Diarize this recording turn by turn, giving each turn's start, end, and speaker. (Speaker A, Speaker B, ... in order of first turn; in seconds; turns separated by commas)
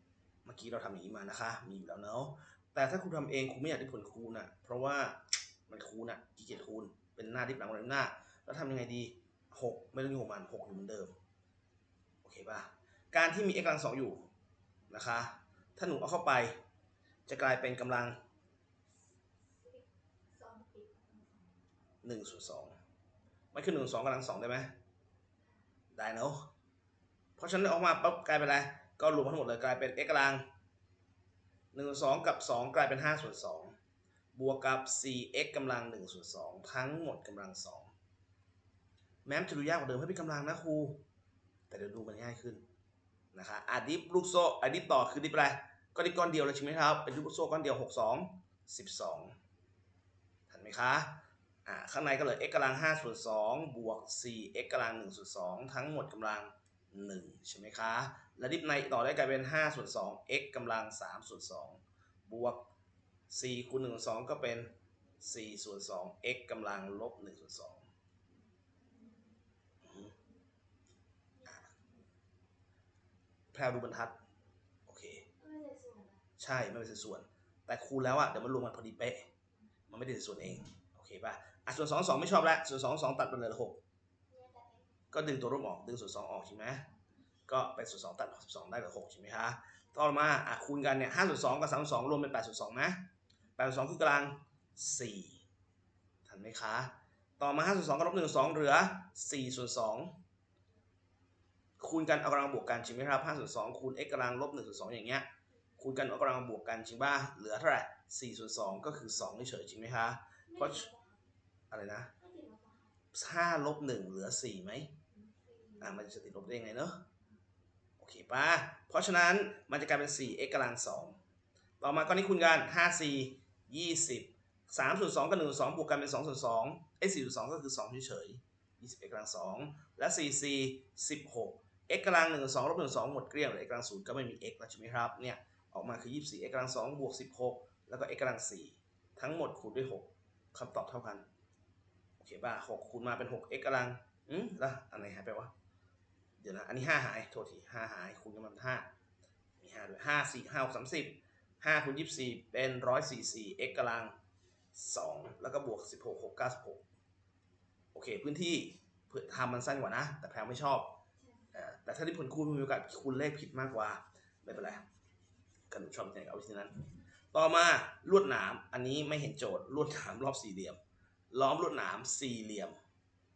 Speaker A: 0.5-11.2, Speaker A: 12.2-14.3, Speaker A: 14.9-16.6, Speaker A: 17.3-18.2, Speaker B: 19.6-21.5, Speaker A: 22.0-22.8, Speaker A: 23.5-24.7, Speaker A: 25.9-26.5, Speaker A: 27.4-30.4, Speaker A: 31.7-33.8, Speaker A: 34.4-37.9, Speaker A: 39.2-41.0, Speaker A: 41.7-42.6, Speaker A: 43.3-49.4, Speaker A: 50.5-62.7, Speaker A: 63.3-67.9, Speaker A: 69.8-70.1, Speaker A: 73.5-74.2, Speaker A: 74.9-75.3, Speaker B: 75.4-76.2, Speaker A: 76.4-79.3, Speaker A: 79.9-83.8, Speaker B: 84.3-84.9, Speaker A: 85.1-86.9, Speaker A: 87.5-93.1, Speaker A: 93.6-95.4, Speaker A: 96.3-100.2, Speaker A: 101.8-105.3, Speaker A: 105.8-110.9, Speaker B: 110.5-111.2, Speaker A: 111.7-112.1, Speaker B: 112.2-112.9, Speaker A: 113.1-115.0, Speaker B: 115.1-115.8, Speaker A: 115.8-117.0, Speaker A: 118.0-121.2, Speaker A: 121.8-141.3, Speaker A: 142.2-145.5, Speaker A: 146.4-148.9, Speaker A: 149.6-154.2, Speaker A: 154.7-156.8, Speaker A: 157.9-161.0, Speaker B: 161.2-161.4, Speaker A: 161.5-164.8, Speaker A: 165.7-170.8, Speaker A: 171.3-172.8